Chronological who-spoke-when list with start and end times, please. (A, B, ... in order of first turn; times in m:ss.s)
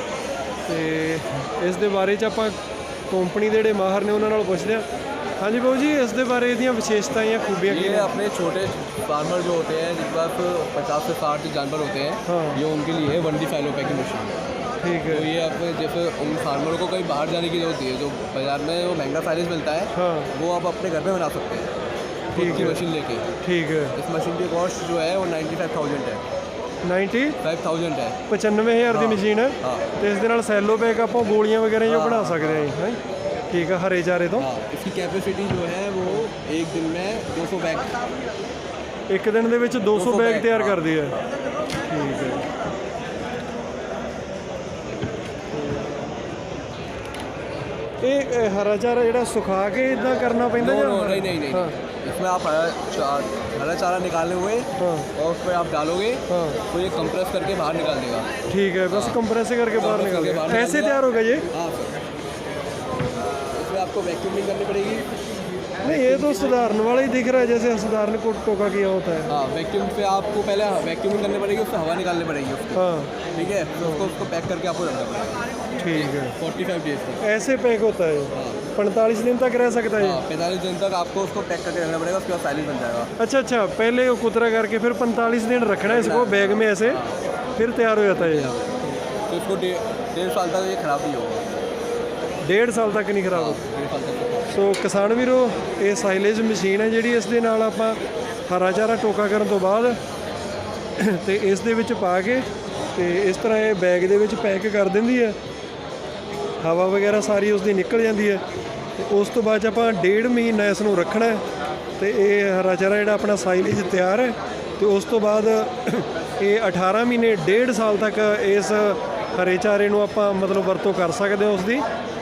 0:00.7-0:02.6 A
0:03.1-0:04.9 A
0:05.4-0:08.2 A
0:07.7-0:14.4 B
0:12.2-0:12.6 A
0:14.8-0:15.3 A
0:15.1-0:21.7 B
0:19.9-0:20.3 A
0:22.3-0:22.8 A
0:22.3-0:23.3 B
0:23.4-0:24.0 A
0:23.9-0:26.2 B
0:26.8-0:27.4 A
0:27.4-0:28.2 B
0:28.3-0:33.0 A
0:28.9-0:29.9 B
0:31.9-0:32.7 B
0:33.5-0:34.5 A
0:34.4-0:38.0 B
0:39.1-0:41.2 A
0:39.9-0:40.8 B
0:41.8-0:42.5 A
0:45.5-0:46.0 A
0:48.0-0:51.8 A
0:50.6-0:58.3 B
0:54.8-0:55.1 A
0:56.3-0:56.6 A
0:58.5-1:01.5 A
0:58.9-0:59.2 B
0:59.8-1:02.0 B
1:03.5-1:05.1 B
1:05.8-1:09.4 A
1:05.8-1:06.3 B
1:09.3-1:12.8 B
1:12.8-1:13.3 A
1:13.3-1:17.2 B
1:13.8-1:14.1 A
1:15.8-1:16.4 A
1:17.2-1:20.2 A
1:18.3-1:18.6 B
1:20.0-1:23.1 B
1:23.2-1:27.0 A
1:25.8-1:27.3 B
1:27.6-1:28.6 A
1:28.1-1:31.6 B
1:32.4-1:33.6 A
1:33.3-1:34.6 B
1:34.5-1:40.0 A
1:41.0-1:45.4 A
1:46.6-1:48.4 A
1:49.0-1:51.4 A
1:52.0-2:01.8 A